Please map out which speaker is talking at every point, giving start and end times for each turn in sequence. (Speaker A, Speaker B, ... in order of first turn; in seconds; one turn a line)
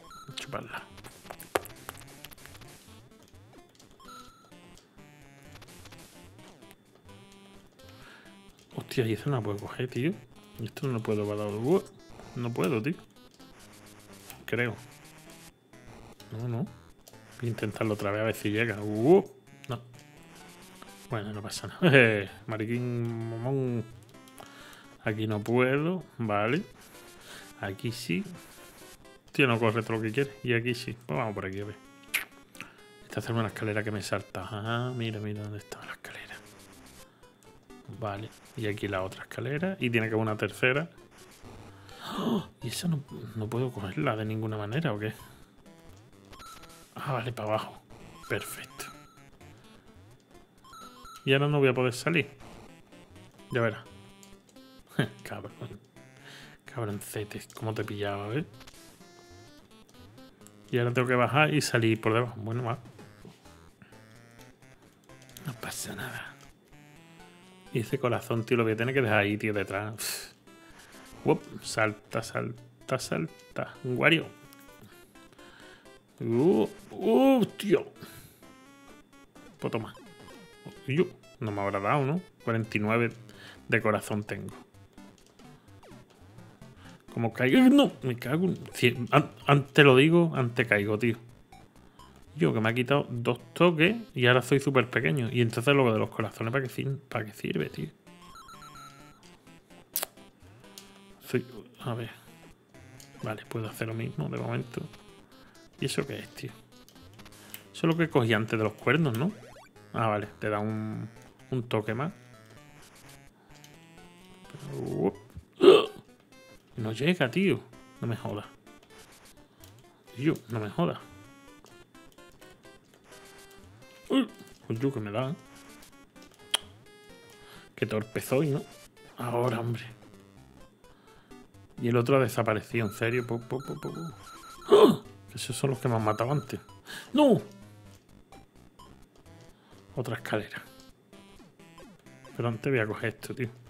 Speaker A: 0.3-0.9
Speaker A: 8.7-13.0
Speaker A: 14.4-14.8
Speaker A: 16.3-16.7
Speaker A: 17.4-19.8
Speaker A: 21.1-23.9
Speaker A: 25.0-26.6
Speaker A: 27.6-28.3
Speaker A: 29.3-31.8
Speaker A: 33.0-36.4
Speaker A: 37.9-40.9
Speaker A: 42.0-45.1
Speaker A: 47.0-48.9
Speaker A: 51.2-52.3
Speaker A: 53.5-53.9
Speaker A: 55.0-55.8
Speaker A: 56.6-58.5
Speaker A: 60.7-62.8
Speaker A: 65.4-66.3
Speaker A: 67.7-70.3
Speaker A: 71.2-74.3
Speaker A: 76.2-77.9
Speaker A: 79.6-80.0
Speaker A: 80.7-84.6
Speaker A: 87.1-91.2
Speaker A: 92.3-97.9
Speaker A: 101.2-102.1
Speaker A: 103.2-104.9
Speaker A: 105.8-106.5
Speaker A: 107.7-109.4
Speaker A: 109.9-112.1
Speaker A: 114.5-116.0
Speaker A: 116.8-118.5
Speaker A: 120.1-121.0
Speaker A: 124.1-125.4
Speaker A: 127.7-128.7
Speaker A: 129.2-129.9
Speaker A: 131.8-137.5
Speaker A: 139.9-140.7
Speaker A: 142.3-143.5